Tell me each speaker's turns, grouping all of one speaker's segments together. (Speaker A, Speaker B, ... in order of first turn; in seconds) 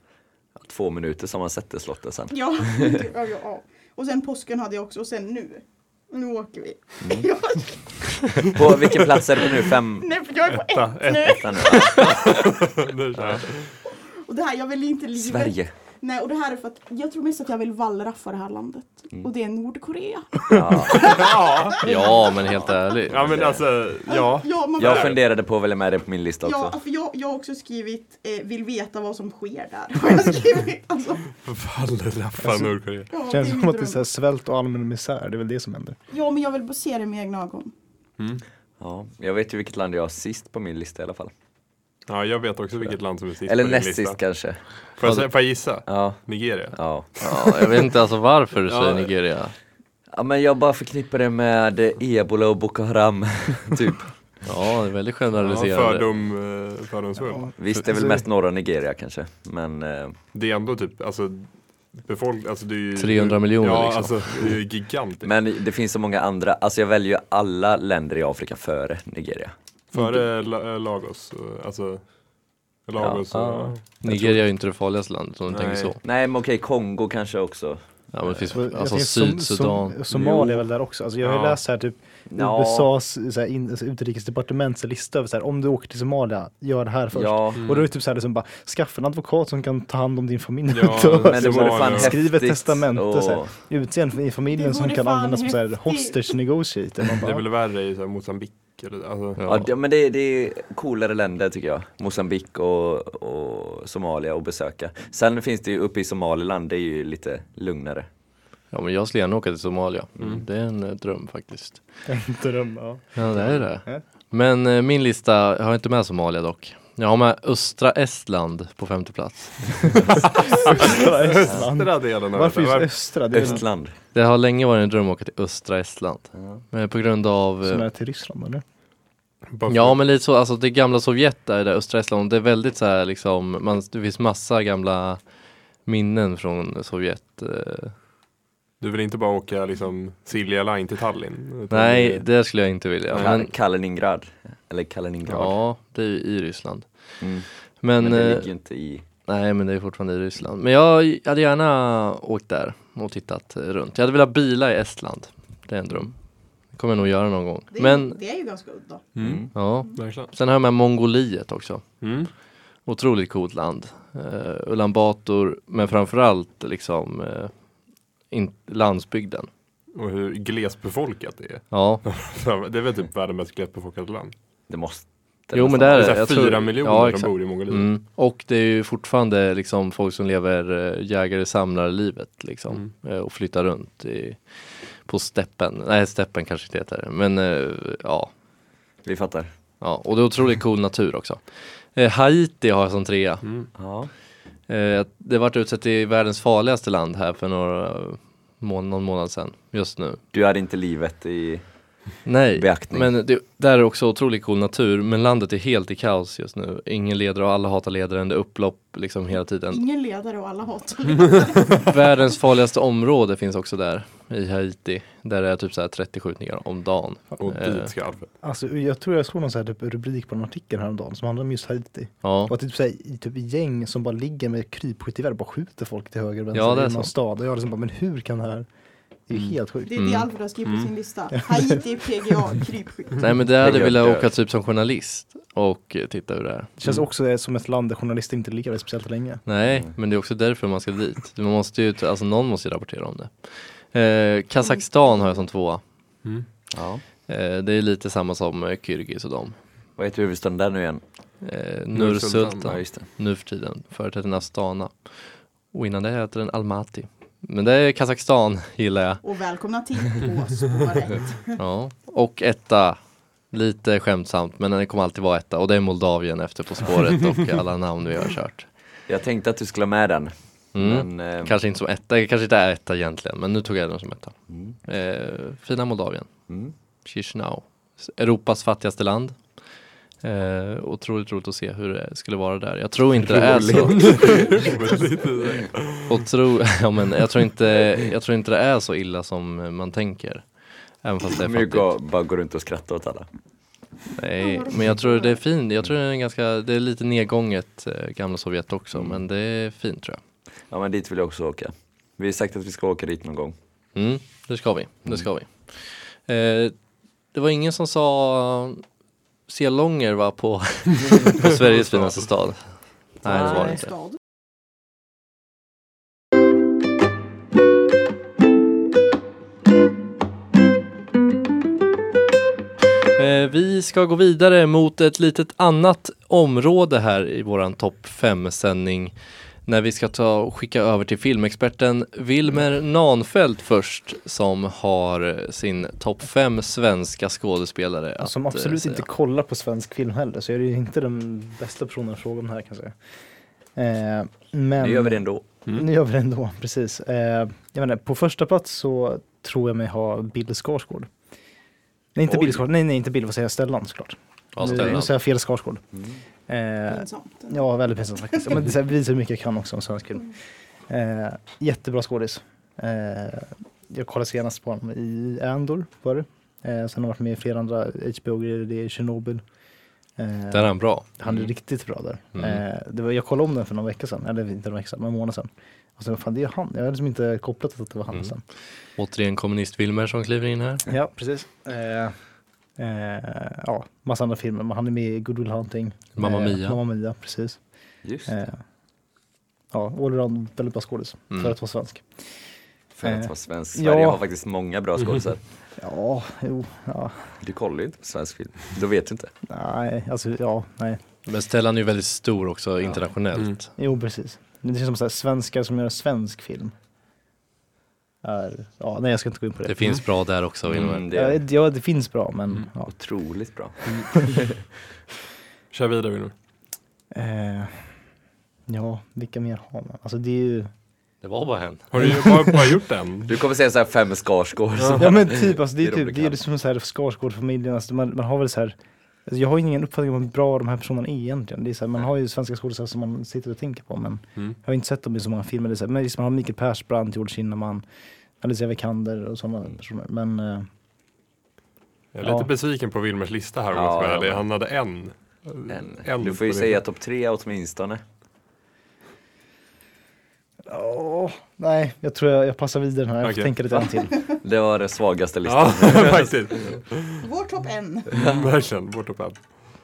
Speaker A: 0.6-3.0, 7.0-7.3, 8.4-10.1, 11.3-12.5, 13.1-13.4, 15.2-15.7, 20.5-21.3, 23.1-23.6, 24.8-26.8, 38.8-41.3, 43.5-44.6, 45.9-47.1, 50.1-54.1, 57.6-60.2, 65.2-69.5, 73.0-73.7, 76.0-77.8, 82.3-82.9, 87.1-87.6, 91.3-93.5, 99.5-108.1, 110.2-110.4, 123.3-123.9, 126.3-126.6, 143.1-145.6, 147.2-149.0, 159.2-159.5, 174.7-176.2, 189.0-189.5, 193.7-194.1, 200.3-201.6, 202.6-203.1, 233.6-234.3, 239.7-239.9, 246.7-247.0, 250.0-251.0, 252.6-253.1, 269.1-271.6, 274.5-274.8, 276.5-276.7, 283.2-284.7, 291.4-293.3, 298.9-299.2, 300.7-303.5, 313.2-313.8, 344.8-345.4, 355.9-356.2, 388.0-388.3, 392.9-395.4, 397.4-399.3, 410.7-411.4, 412.9-414.6, 423.3-426.4, 443.7-444.4, 445.7-448.0, 454.4-456.6, 458.1-458.5
Speaker B: 2.3-12.2, 13.9-22.8, 24.1-25.2, 26.4-31.3, 33.1-34.0, 36.1-37.7, 94.5-96.3, 157.7-159.1, 209.7-212.0, 229.8-233.3, 259.2-261.6, 294.4-295.4, 313.3-314.1, 356.9-357.6, 457.2-458.1
Speaker C: 10.5-13.7, 20.9-21.8, 23.1-25.2, 31.4-33.1, 42.1-44.2, 45.0-47.6, 48.7-49.1, 55.4-57.5, 60.3-65.3, 69.9-72.0, 72.8-74.4, 75.5-75.9, 80.1-80.5, 81.2-81.6, 87.6-87.9, 90.7-92.2, 97.2-99.4, 120.8-122.9, 129.5-130.0, 138.8-142.2, 159.2-160.3, 162.0-162.3, 169.9-174.3, 175.9-177.9, 193.4-193.7, 217.4-218.3, 230.6-230.9, 251.9-252.7, 284.0-286.2, 311.5-312.2, 413.9-414.2, 415.7-416.3, 421.9-423.4, 424.8-425.1, 442.1-446.8, 453.2-453.5, 455.4-457.2, 458.1-459.4
Speaker D: 21.8-23.3, 45.0-45.3, 47.2-49.5, 54.4-56.0, 63.0-64.5, 74.0-76.0, 78.1-80.0, 99.4-99.7, 108.7-111.8, 113.2-120.0, 124.1-127.9, 129.7-135.2, 135.8-137.9, 141.7-143.5, 145.3-146.9, 147.8-148.5, 149.3-156.1, 156.7-158.2, 159.5-161.9, 162.8-167.5, 168.3-169.5, 171.7-172.0, 175.5-184.4, 185.0-188.3, 189.8-191.4, 191.9-193.4, 194.7-200.2, 202.2-209.8, 211.7-217.9, 222.2-222.5, 226.5-227.1, 230.0-230.3, 233.2-236.7, 239.4-245.8, 247.3-249.6, 251.4-254.9, 255.7-259.2, 261.6-263.0, 263.5-268.7, 270.7-276.3, 277.0-279.4, 280.2-284.4, 286.1-290.4, 291.0-291.9, 294.1-300.2, 303.9-306.7, 307.3-308.8, 309.5-312.6, 313.2-313.9, 323.1-329.1, 329.6-339.0, 354.6-355.1, 370.5-371.1, 372.3-372.6, 379.0-380.8, 386.1-386.8, 401.2-403.7, 409.6-411.1, 421.2-421.9
Speaker E: 32.4-32.7, 33.2-36.0, 57.3-58.2, 78.5-97.4, 112.1-114.0, 120.3-123.6, 127.6-128.6, 218.4-228.7, 229.3-229.9, 231.4-231.8, 236.8-239.4, 338.2-342.9, 343.8-351.1, 352.1-355.8, 356.5-360.3, 360.9-369.4, 370.2-378.4, 380.9-382.1, 382.8-387.6, 388.2-388.6, 389.7-392.1, 393.0-394.2, 395.8-397.3, 399.5-401.0, 403.8-406.7, 408.2-410.0, 411.1-412.9, 417.1-417.9, 418.7-420.7, 422.0-422.7, 424.9-428.7, 429.2-437.8, 438.4-440.7, 442.2-442.5, 450.7-454.2